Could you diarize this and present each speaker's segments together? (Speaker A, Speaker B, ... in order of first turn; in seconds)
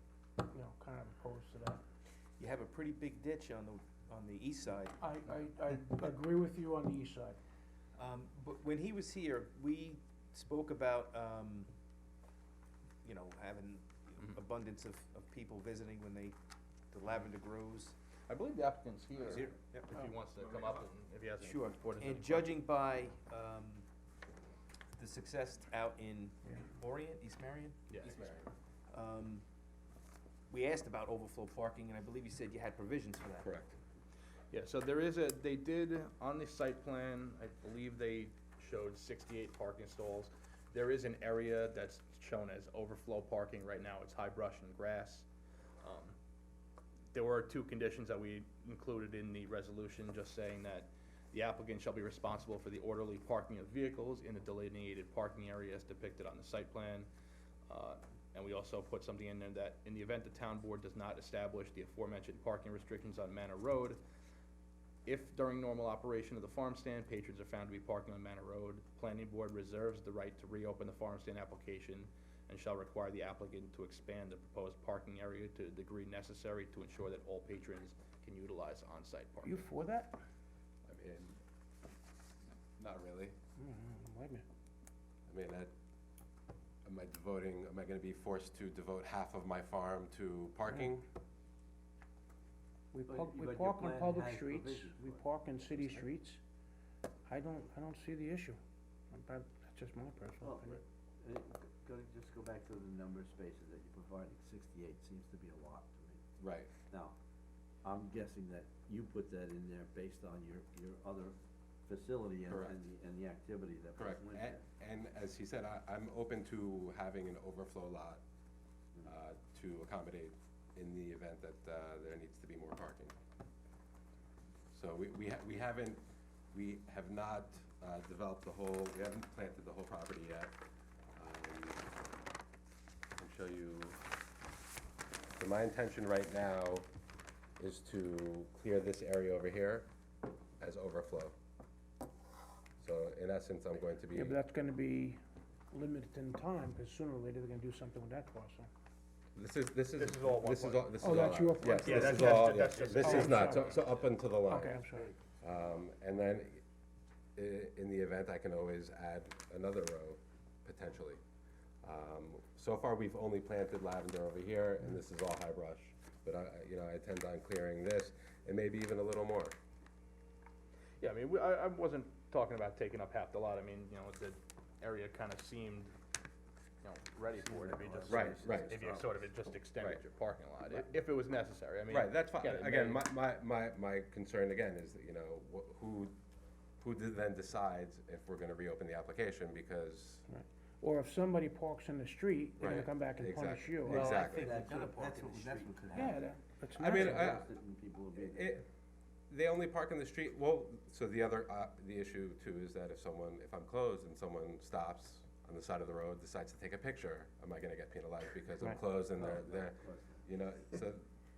Speaker A: 0.4-1.8, 5.0-7.4, 79.4-80.2, 83.6-84.5, 92.9-96.4, 97.3-98.6, 99.1-100.8, 144.1-145.2, 145.7-148.7, 151.0-153.7, 154.5-155.1, 190.3-194.2, 195.9-197.3
Speaker B: 2.4-5.1, 8.0-11.7, 13.0-16.4, 16.9-17.9, 19.2-19.9, 21.4-23.9, 24.9-28.3, 28.9-29.4, 30.5-33.5, 193.9-195.9
Speaker C: 18.3-22.5, 27.9-28.2, 34.5-45.3, 45.8-46.1, 47.1-57.1, 57.7-64.0, 65.1-79.7, 150.0-154.1, 171.0-175.9, 176.8-183.0
Speaker D: 28.0-28.5, 33.4-33.8, 80.9-81.4, 82.8-83.4, 85.3-85.7, 86.8-91.0, 106.4-106.7, 112.5-112.7, 114.0-118.2, 119.0-123.2, 124.7-130.6, 131.2-131.9, 133.2-134.0, 135.4-136.9, 137.6-139.9, 140.6-141.3, 142.8-144.4, 149.4-154.8, 155.4-156.6, 157.4-161.2, 161.8-169.6, 178.1-178.8, 181.9-186.2, 186.8-190.3, 192.6-194.5, 196.7-197.5, 198.2-198.7, 199.3-211.1
Speaker E: 93.1-96.1, 100.4-106.2, 106.9-107.1, 107.8-114.6, 177.4-179.1, 194.1-196.2, 196.8-198.6, 209.2-210.2